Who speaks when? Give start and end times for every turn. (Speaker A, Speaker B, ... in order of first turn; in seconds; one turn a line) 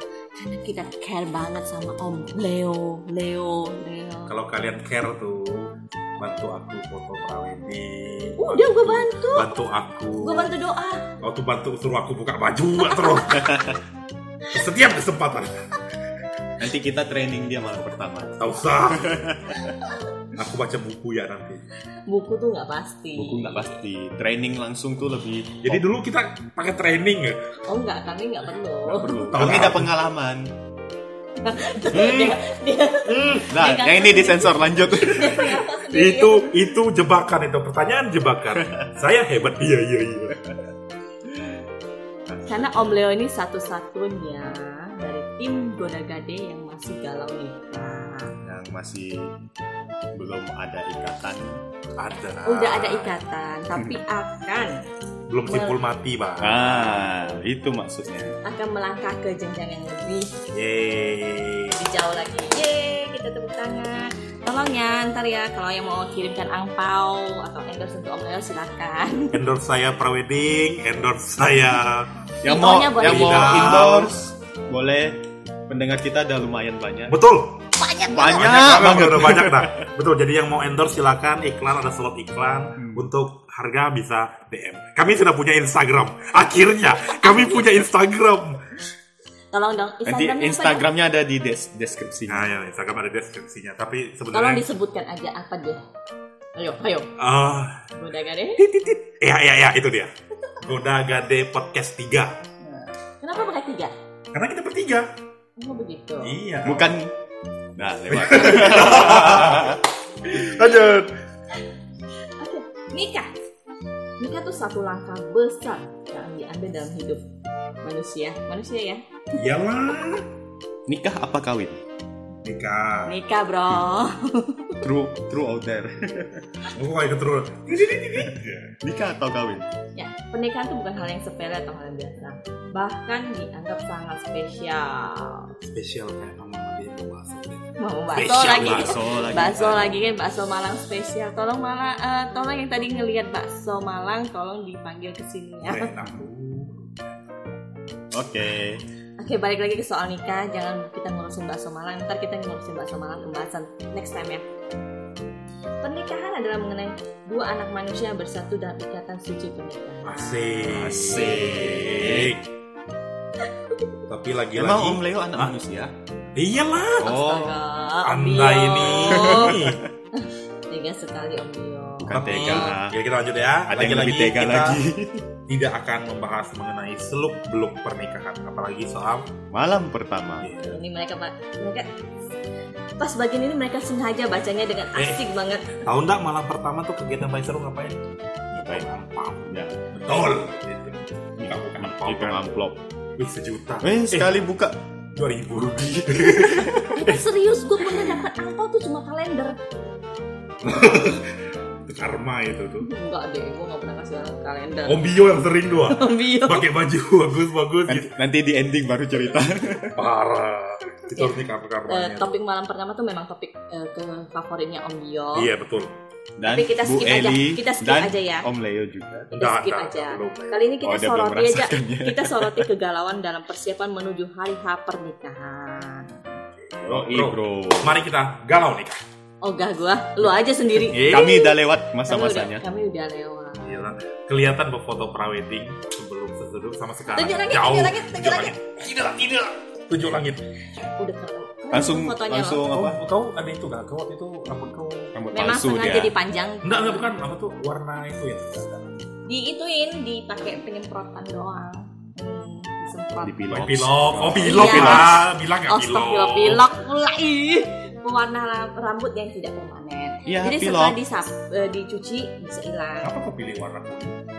Speaker A: 0.4-4.3
Speaker B: 4.3-10.5
Speaker A: 8.4-9.5
Speaker A: 10.2-11.1
Speaker B: 11.2-13.7
Speaker C: 13.4-13.7
Speaker B: 14.5-15.6
Speaker C: 16.6-19.5
Speaker B: 18.4-19.4
Speaker B: 20.3-21.6
Speaker A: 22.1-23.8
Speaker C: 23.1-25.8
Speaker B: 25.6-27.4
Speaker A: 27.7-29.2
Speaker C: 28.9-30.5
Speaker B: 29.3-29.9
Speaker A: 31.4-36.5
Speaker B: 31.9-32.4
Speaker B: 33.0-33.5
Speaker C: 33.5-35.6
Speaker B: 35.9-40.6
Speaker C: 38.6-38.9
Speaker C: 42.3-42.9
Speaker A: 42.5-48.3
Speaker C: 48.4-49.3
Speaker C: 50.1-51.6
Speaker B: 52.0-53.2
Speaker A: 52.5-54.8
Speaker B: 55.3-57.1
Speaker A: 55.5-55.8
Speaker C: 56.4-58.4
Speaker A: 58.4-60.3
Speaker B: 60.5-61.8
Speaker A: 61.8-69.4
Speaker B: 69.3-72.1
Speaker C: 72.4-75.2
Speaker A: 72.4-73.9
Speaker B: 72.8-74.1
Speaker C: 75.7-77.2
Speaker B: 77.1-77.5
Speaker A: 77.8-78.5
Speaker C: 78.1-79.8
Speaker B: 78.1-88.6
Speaker A: 86.9-87.7
Speaker A: 89.5-90.8
Speaker C: 90.0-92.5
Speaker B: 92.3-94.7
Speaker A: 94.3-95.8
Speaker A: 96.6-97.1
Speaker B: 97.2-97.9
Speaker A: 97.9-98.6
Speaker B: 98.6-102.4
Speaker A: 102.6-103.9
Speaker B: 104.3-105.1
Speaker A: 105.6-106.3
Speaker B: 106.2-107.0
Speaker C: 106.6-107.1
Speaker C: 107.8-109.8
Speaker B: 108.1-111.1
Speaker A: 112.4-113.3
Speaker A: 114.2-117.2
Speaker A: 117.8-119.0
Speaker B: 119.3-120.2
Speaker C: 120.9-121.8
Speaker B: 122.4-123.2
Speaker A: 123.0-124.8
Speaker C: 124.8-126.5
Speaker B: 126.7-128.8
Speaker C: 128.8-129.7
Speaker A: 129.9-135.5
Speaker B: 135.6-139.0
Speaker A: 137.8-145.9
Speaker C: 138.4-140.1
Speaker B: 145.6-147.5
Speaker C: 148.1-148.8
Speaker A: 149.2-154.4
Speaker A: 155.8-161.0
Speaker B: 160.0-162.4
Speaker C: 160.7-162.4
Speaker B: 164.1-165.5
Speaker C: 164.5-165.9
Speaker B: 166.3-167.2
Speaker C: 167.0-167.6
Speaker A: 167.0-169.6
Speaker B: 168.0-169.8
Speaker C: 169.0-169.9
Speaker A: 170.1-172.7
Speaker C: 172.0-173.0
Speaker B: 172.1-174.8
Speaker C: 173.7-175.2
Speaker B: 175.5-179.3
Speaker C: 179.5-180.7
Speaker B: 180.4-180.8
Speaker A: 180.6-181.9
Speaker A: 183.0-185.8
Speaker B: 184.9-185.2
Speaker B: 185.8-188.0
Speaker B: 188.5-192.4
Speaker C: 188.6-188.9
Speaker C: 189.4-190.1
Speaker C: 191.4-192.8
Speaker B: 193.2-194.4
Speaker C: 193.8-194.8
Speaker B: 195.2-197.2
Speaker C: 195.8-197.0
Speaker A: 196.9-199.6
Speaker B: 200.6-202.9
Speaker A: 202.8-205.1
Speaker B: 204.8-208.1
Speaker A: 205.9-206.7
Speaker C: 207.9-210.0
Speaker B: 209.9-212.4
Speaker A: 211.9-215.5
Speaker B: 215.3-215.9
Speaker C: 216.4-219.3
Speaker A: 216.5-218.4
Speaker A: 219.3-226.4
Speaker B: 219.3-220.7
Speaker C: 220.8-222.7
Speaker C: 226.7-228.0
Speaker B: 226.9-229.0
Speaker A: 229.4-233.7
Speaker B: 230.9-231.3
Speaker C: 230.9-232.6
Speaker B: 233.6-240.4
Speaker A: 237.1-238.5
Speaker A: 241.0-242.6
Speaker C: 241.7-243.0
Speaker B: 242.7-245.1
Speaker C: 245.1-246.1
Speaker A: 245.3-247.1
Speaker B: 246.6-248.9
Speaker A: 249.3-253.4
Speaker C: 253.2-255.2
Speaker B: 253.5-256.7
Speaker A: 254.4-263.1
Speaker C: 260.2-261.0
Speaker B: 263.0-264.2